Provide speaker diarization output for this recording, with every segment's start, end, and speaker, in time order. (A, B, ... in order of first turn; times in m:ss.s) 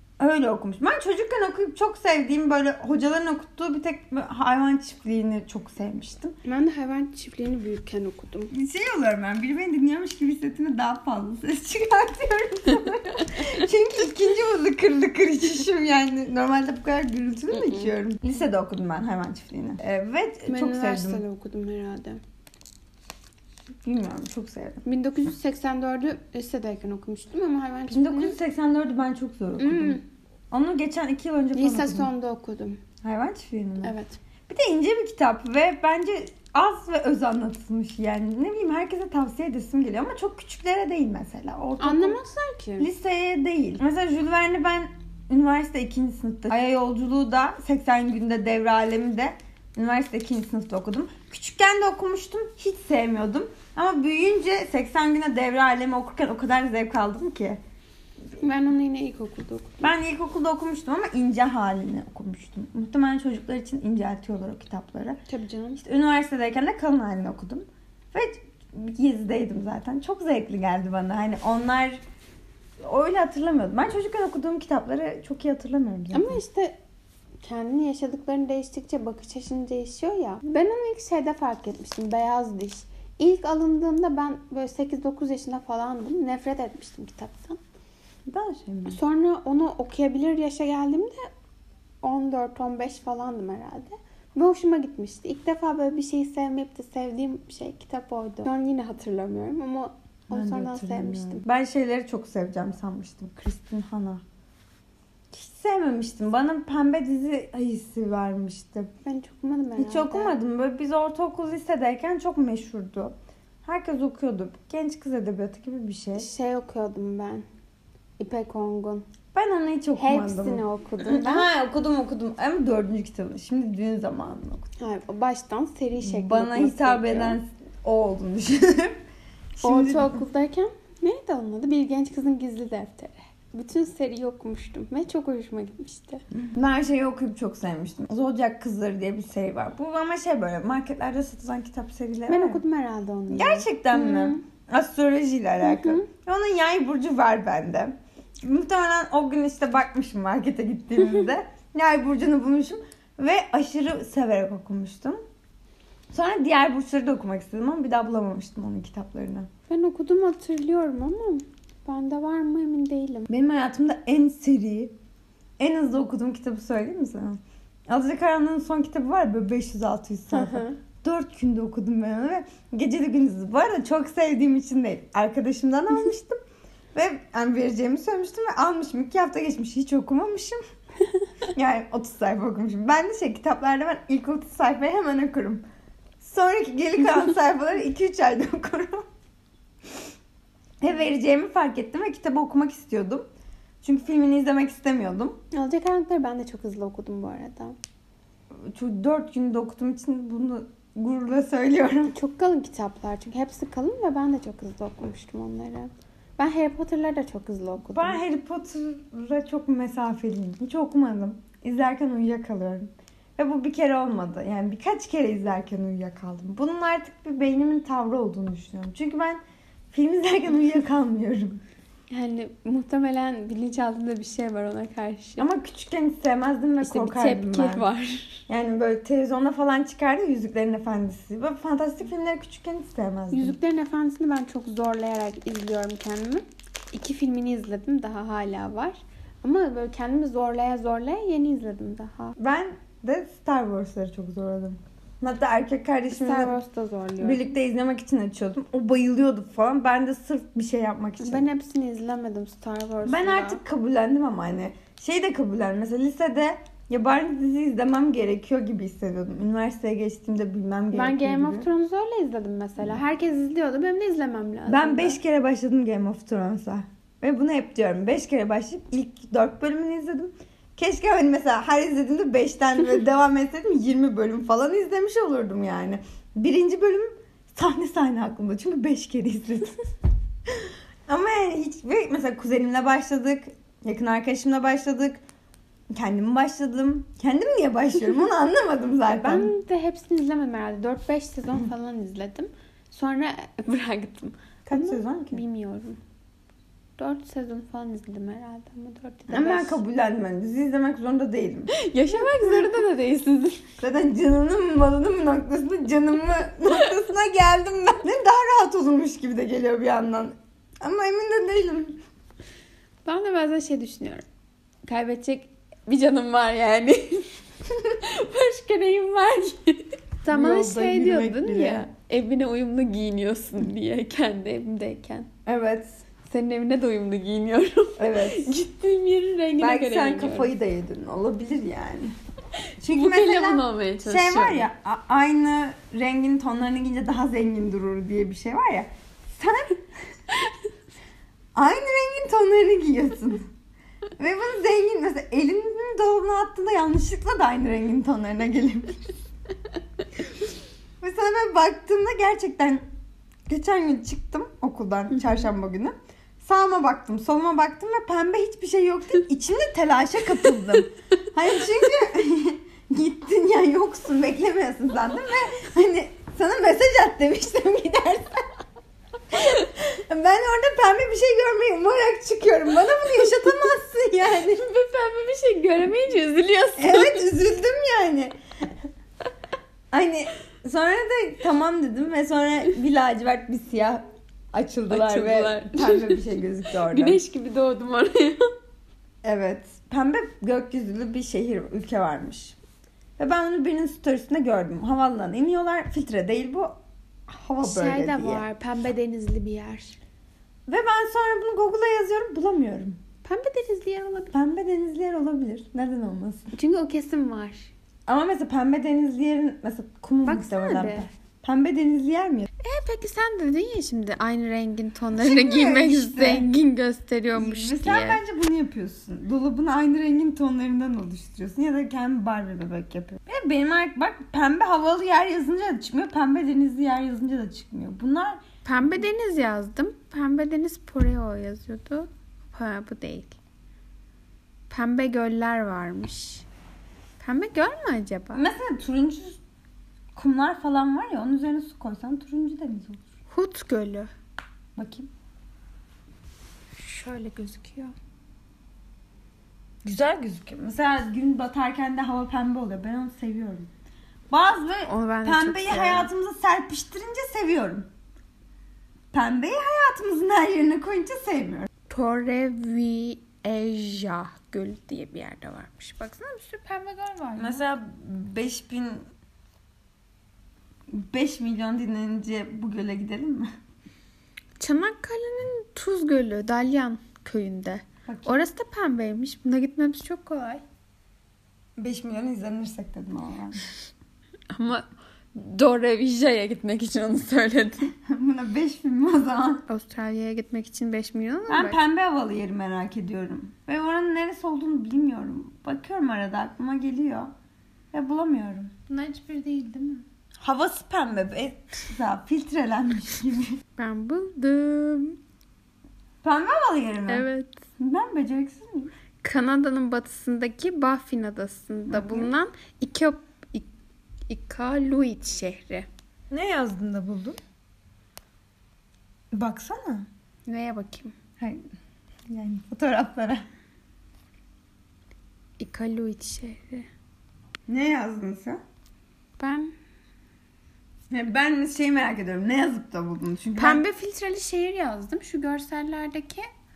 0:00.2-0:06.4 A
0:06.4-0:08.5 B
0:08.5-0:21.2 A
0:17.5-0:17.9 B
0:20.5-0:22.2 B
0:23.8-0:24.8 A
0:24.8-0:28.4 B
0:27.9-0:30.0 A
0:29.6-0:30.0 B
0:30.5-0:32.1 A
0:31.5-0:32.8 B
0:33.0-0:34.0 A
0:33.8-0:34.2 B
0:34.5-0:42.2 A
0:41.8-0:42.9 B
0:42.8-0:57.6 A
0:58.4-0:59.8 B
0:59.8-1:05.2 A
1:05.3-1:05.8 B
1:05.8-1:12.0 A
1:12.8-1:16.4 A
1:16.1-1:16.8 B
1:17.4-1:27.6 B
1:28.3-1:29.0 A
1:28.9-1:31.3 B
1:32.0-1:41.4 B
1:40.3-1:44.2 A
1:45.3-1:48.9 A
1:49.0-1:50.3 B
1:49.8-1:56.3 A
1:56.2-1:57.4 B
1:58.2-1:59.0 B
1:59.3-2:04.7 A
2:00.0-2:01.5 B
2:04.8-2:07.4 B
2:06.0-2:09.0 A
2:09.6-2:10.2 A
2:09.6-2:16.2 B
2:16.3-2:22.6 A
2:22.3-2:24.4 B
2:23.3-2:35.2 A
2:25.6-2:26.1 B
2:36.1-2:39.5 A
2:39.7-2:43.3 B
2:43.3-2:44.9 A
2:45.6-2:56.4 A
2:50.3-2:50.8 B
2:56.9-3:00.6 A
3:01.5-3:05.6 A
3:06.2-3:09.0 A
3:10.8-3:13.2 A
3:13.8-3:15.4 A
3:15.5-3:17.8 B
3:18.6-3:22.1 A
3:22.1-3:28.2 B
3:27.8-3:39.4 A
3:39.9-3:41.6 A
3:42.1-3:45.4 B
3:45.4-3:47.8 A
3:46.8-3:48.4 B
3:48.5-3:53.6 A
3:53.3-4:02.4 B
4:02.4-4:06.6 A
4:06.1-4:07.4 B
4:07.2-4:11.5 A
4:11.2-4:13.6 B
4:13.0-4:21.7 A
4:20.9-4:25.2 B
4:24.7-4:39.8 A
4:40.5-4:45.2 A
4:45.9-4:49.5 A
4:49.1-4:56.0 B
4:54.6-4:55.4 A
4:57.0-4:59.8 B
4:59.3-5:01.7 A
5:01.7-5:03.6 B
5:03.8-5:12.0 A
5:13.0-5:14.2 B
5:14.8-5:25.3 B
5:20.3-5:21.9 A
5:25.4-5:26.0 A
5:26.2-5:30.5 B
5:28.0-5:28.6 A
5:29.6-5:32.2 A
5:32.8-5:39.9 A
5:32.9-5:34.7 B
5:41.5-5:43.5 A
5:44.2-5:49.1 A
5:51.0-5:52.8 A
5:53.5-6:08.4 A
6:09.3-6:14.6 A
6:14.5-6:17.3 B
6:16.8-6:18.4 A
6:19.9-6:27.2 A
6:24.9-6:28.5 B
6:29.2-6:32.6 A
6:33.2-6:36.8 A
6:37.3-6:38.4 A
6:37.6-6:40.0 B
6:40.7-6:43.0 A
6:43.2-6:44.3 B
6:44.3-6:46.5 A
6:46.5-6:47.7 B
6:48.1-6:52.5 A
6:50.2-6:51.1 B
6:52.6-6:58.2 B
6:55.2-6:56.5 A
6:57.3-7:08.4 A
7:08.6-7:13.4 B
7:14.7-7:16.4 B
7:17.2-7:18.4 B
7:18.3-7:19.4 A
7:20.2-7:23.0 A
7:23.3-7:24.1 B
7:24.8-7:25.1 A
7:26.8-7:27.9 B
7:29.8-7:33.7 A
7:34.3-7:37.9 A
7:34.8-7:36.1 B
7:39.1-7:41.7 A
7:41.9-7:47.6 B
7:47.4-7:49.0 A
7:50.9-7:53.5 A
7:54.6-8:00.6 B
7:58.0-7:58.4 A
8:01.8-8:03.6 A
8:04.5-8:07.9 B
8:08.0-8:09.6 A
8:09.7-8:11.8 B
8:11.5-8:17.3 A
8:17.9-8:18.7 A
8:18.9-8:20.0 B
8:20.4-8:23.6 A
8:23.8-8:25.2 B
8:26.2-8:27.3 A
8:27.1-8:27.6 B
8:27.8-8:28.9 A
8:29.2-8:33.7 B
8:31.9-8:32.3 A
8:34.3-8:35.9 B
8:36.3-8:37.4 A
8:39.3-8:40.1 A
8:40.4-8:41.1 B
8:42.3-8:43.4 A
8:45.6-8:46.9 B
8:47.7-8:48.6 A
8:49.4-8:49.7 B
8:51.1-8:53.8 A
8:53.6-8:56.5 B